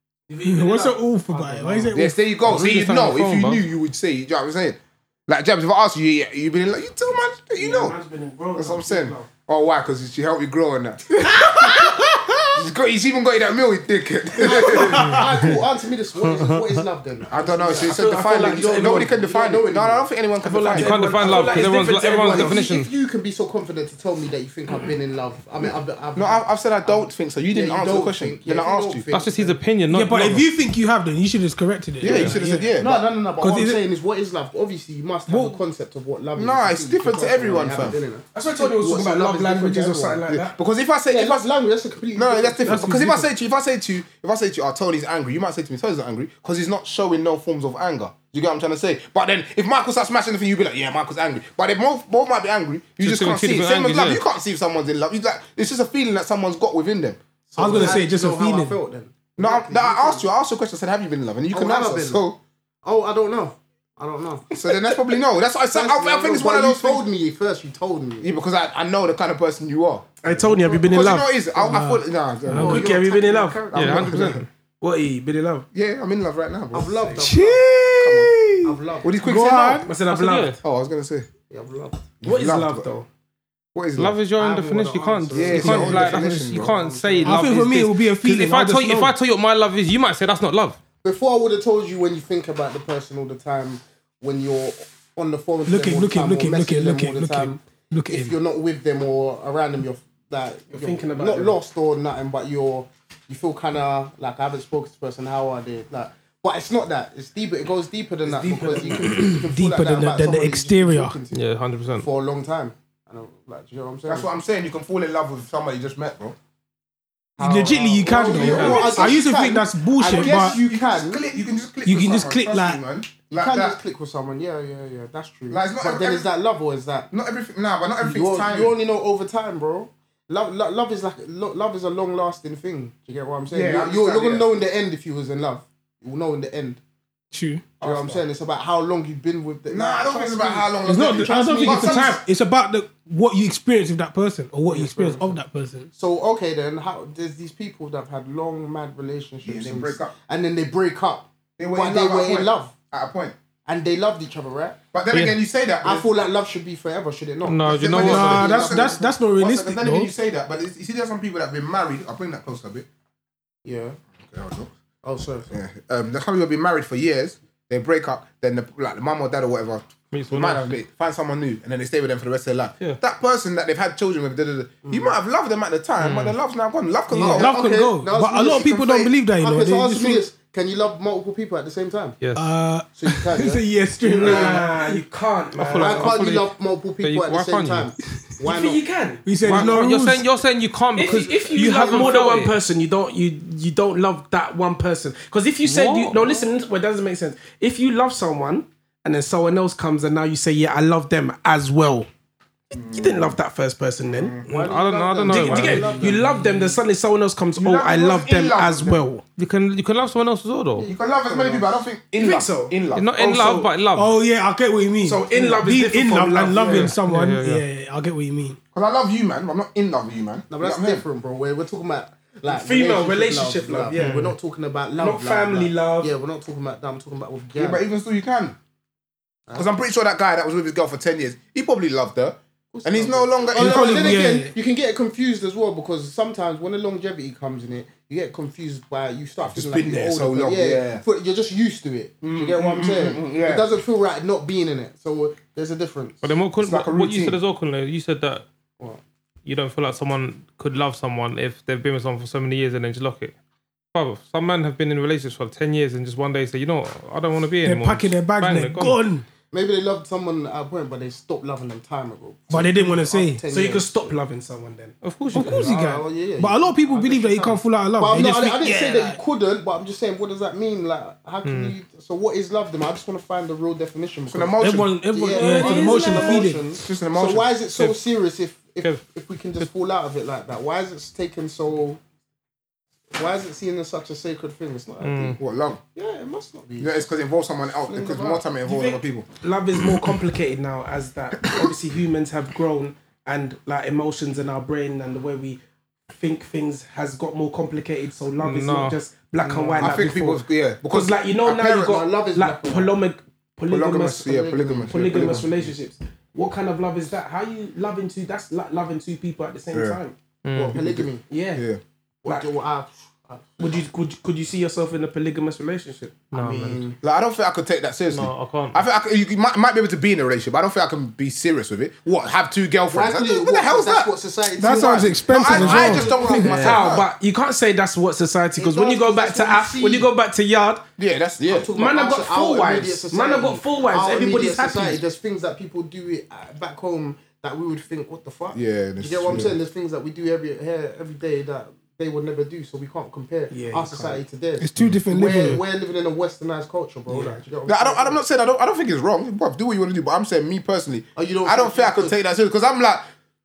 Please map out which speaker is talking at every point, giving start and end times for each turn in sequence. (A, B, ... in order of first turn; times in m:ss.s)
0:00.3-0:01.9 A
0:00.4-0:02.2 B
0:01.9-0:08.0 C
0:02.4-0:03.6 D
0:07.6-0:09.3 A
0:08.5-0:15.5 C
0:14.4-0:20.1 E
0:14.9-0:15.6 D
0:16.2-0:16.8 D
0:17.3-0:21.0 C
0:17.8-0:19.1 A
0:20.4-0:22.6 A
0:20.7-0:22.9 D
0:21.2-0:29.6 E
0:26.1-0:29.1 C
0:29.1-0:30.5 D
0:29.9-0:32.8 B
0:32.0-0:33.0 C
0:32.0-0:32.3 D
0:32.2-0:40.3 E
0:33.4-0:33.8 B
0:35.3-0:35.6 B
0:36.4-0:38.0 C
0:38.3-0:40.6 A
0:40.3-0:41.4 C
0:41.1-0:43.0 E
0:42.1-0:57.2 C
0:42.7-0:43.3 B
0:53.0-0:54.2 D
0:57.5-1:00.2 E
0:57.6-0:58.8 B
0:57.7-0:58.0 C
0:59.4-1:02.4 C
1:01.5-1:02.2 E
1:02.8-1:04.5 E
1:04.5-1:07.0 C
1:05.7-1:08.3 E
1:08.2-1:12.9 C
1:10.2-1:11.3 A
1:10.5-1:10.8 E
1:11.7-1:12.0 B
1:12.5-1:13.6 A
1:12.5-1:14.4 E
1:13.7-1:14.4 C
1:13.7-1:14.5 D
1:14.8-1:15.6 A
1:15.7-1:17.0 C
1:16.7-1:19.2 E
1:17.2-1:19.9 B
1:19.0-1:19.9 C
1:19.8-1:20.6 A
1:20.1-1:20.6 D
1:20.6-1:21.3 C
1:21.5-1:22.1 E
1:22.2-1:22.9 C
1:22.2-1:23.1 A
1:23.7-1:24.2 C
1:24.0-1:30.8 D
1:24.4-1:27.6 E
1:25.3-1:26.7 C
1:27.2-1:29.1 B
1:31.0-1:51.4 E
1:35.6-1:38.3 B
1:40.7-1:41.6 A
1:48.2-1:49.4 A
1:49.1-1:51.2 B
1:51.3-1:52.1 D
1:52.0-1:54.3 E
1:54.0-1:56.4 C
1:57.4-2:01.2 E
1:57.4-2:00.6 B
1:58.2-1:59.2 C
1:58.4-1:59.0 D
2:00.0-2:03.8 C
2:01.8-2:02.8 B
2:03.3-2:07.1 E
2:05.5-2:06.3 C
2:07.1-2:08.7 C
2:08.0-2:16.8 E
2:13.5-2:14.5 C
2:17.3-2:17.6 B
2:17.8-2:22.2 E
2:17.8-2:18.2 C
2:19.7-2:22.2 C
2:20.8-2:25.9 B
2:24.7-2:25.2 E
2:25.9-2:32.7 E
2:29.4-2:30.1 C
2:31.6-2:33.3 C
2:33.6-2:34.8 E
2:34.9-2:36.1 C
2:35.1-2:35.4 D
2:35.8-2:39.1 E
2:37.4-2:38.6 D
2:37.8-2:42.8 C
2:38.0-2:40.1 B
2:43.6-2:44.0 E
2:44.2-2:44.7 C
2:45.0-2:45.5 E
2:45.5-2:57.6 C
2:50.1-2:50.7 D
2:54.8-2:55.1 E
2:56.0-2:56.3 D
2:57.1-3:00.2 B
2:57.2-2:58.8 E
2:58.5-2:59.1 C
2:59.3-3:02.2 E
3:02.2-3:02.5 D
3:02.3-3:05.0 B
3:03.0-3:03.6 E
3:04.0-3:06.2 A
3:04.2-3:04.6 E
3:05.6-3:07.9 D
3:05.7-3:08.8 E
3:08.4-3:09.8 A
3:09.2-3:10.3 B
3:09.4-3:12.5 D
3:10.9-3:22.1 A
3:11.0-3:12.2 E
3:15.6-3:16.5 D
3:22.7-3:23.3 C
3:22.8-3:24.4 A
3:24.2-3:24.4 C
3:24.4-3:26.8 E
3:24.4-3:26.2 D
3:25.3-3:29.2 A
3:27.6-3:29.0 C
3:29.4-3:30.9 D
3:30.8-3:31.8 E
3:30.9-3:33.6 C
3:32.2-3:33.6 A
3:32.9-3:34.1 D
3:33.9-3:38.6 B
3:35.0-3:36.9 A
3:36.7-3:37.6 D
3:38.7-3:41.0 C
3:40.5-3:47.8 E
3:42.5-3:44.3 A
3:43.9-3:44.4 D
3:45.0-3:46.1 A
3:47.6-3:48.6 C
3:49.5-3:54.2 C
3:52.7-4:06.3 E
3:53.5-3:54.5 B
3:59.5-4:01.0 C
4:02.2-4:03.7 C
4:06.2-4:08.4 D
4:06.6-4:07.4 C
4:09.4-4:13.3 D
4:13.9-4:19.0 D
4:17.6-4:19.2 B
4:19.5-4:24.1 E
4:22.5-4:23.4 B
4:23.5-4:24.9 A
4:25.0-4:25.7 D
4:25.3-4:29.2 B
4:25.4-4:42.0 E
4:31.4-4:31.8 D
4:34.3-4:35.0 C
4:34.6-4:36.6 B
4:35.3-4:36.5 A
4:36.7-4:37.5 C
4:37.7-4:38.0 D
4:43.1-4:45.4 E
4:45.0-4:45.4 D
4:45.4-4:45.8 C
4:45.9-4:47.1 E
4:46.8-4:49.3 C
4:47.8-4:48.4 E
4:48.6-5:10.2 A
4:58.4-4:59.9 D
4:59.8-5:02.0 C
5:01.8-5:03.0 E
5:03.7-5:05.7 C
5:04.2-5:05.5 E
5:09.7-5:10.0 C
5:10.4-5:10.8 D
5:10.5-5:11.8 C
5:10.7-5:11.2 E
5:11.3-5:11.6 A
5:12.2-5:13.8 E
5:13.6-5:16.1 A
5:16.3-5:16.8 D
5:16.3-5:17.0 E
5:17.0-5:24.1 C
5:18.1-5:18.8 D
5:22.9-5:26.9 E
5:24.6-5:26.3 B
5:25.1-5:27.1 C
5:26.2-5:30.8 A
5:28.6-5:30.1 E
5:31.0-5:31.7 C
5:31.5-5:48.2 E
5:31.7-5:35.0 A
5:38.5-5:39.6 C
5:43.5-5:44.2 A
5:44.6-5:45.6 B
5:47.1-5:47.4 A
5:47.7-5:53.0 C
5:51.2-5:52.2 E